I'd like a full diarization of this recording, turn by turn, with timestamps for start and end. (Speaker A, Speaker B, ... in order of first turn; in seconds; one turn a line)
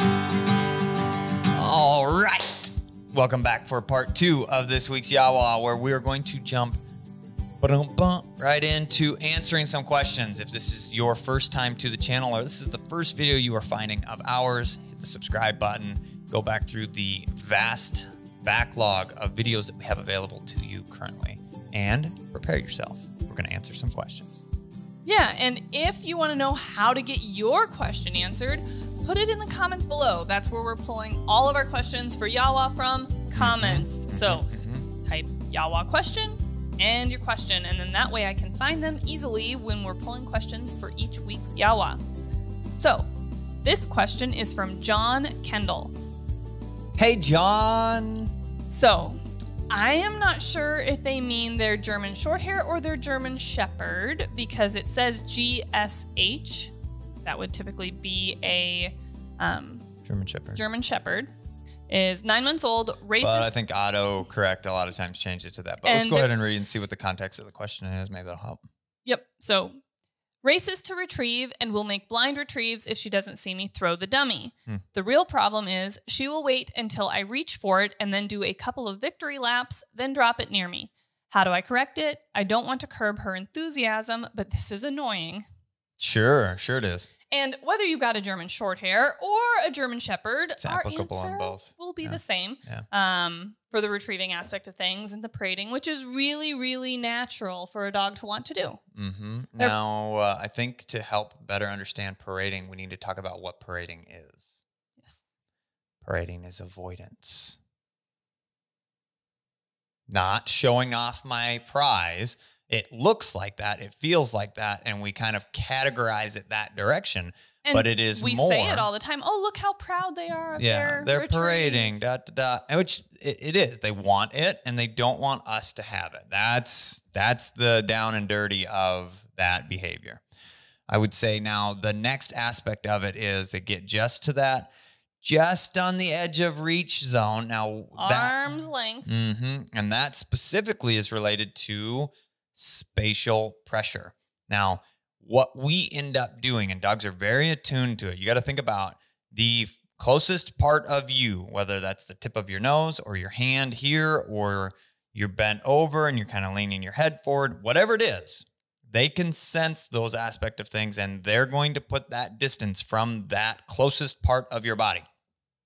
Speaker A: 1.5-6.8
Speaker A: 7.6-24.4
Speaker B: 25.0-34.5
Speaker A: 33.4-34.9
Speaker B: 35.0-42.0
Speaker B: 42.8-43.1
Speaker B: 43.6-45.9
Speaker A: 47.0-48.3
Speaker B: 48.7-56.7
Speaker B: 57.2-59.9
Speaker A: 60.0-60.6
Speaker B: 60.5-61.3
Speaker B: 61.9-63.5
Speaker A: 63.2-68.6
Speaker B: 65.8-66.3
Speaker B: 69.1-69.8
Speaker B: 70.4-85.5
Speaker A: 86.0-87.1
Speaker B: 87.3-98.8
Speaker A: 90.6-92.9
Speaker A: 99.0-104.4
Speaker B: 105.0-105.3
Speaker A: 106.0-107.6
Speaker A: 110.1-118.9
Speaker B: 117.6-122.0
Speaker A: 120.6-130.2
Speaker A: 130.9-165.0
Speaker B: 138.0-139.1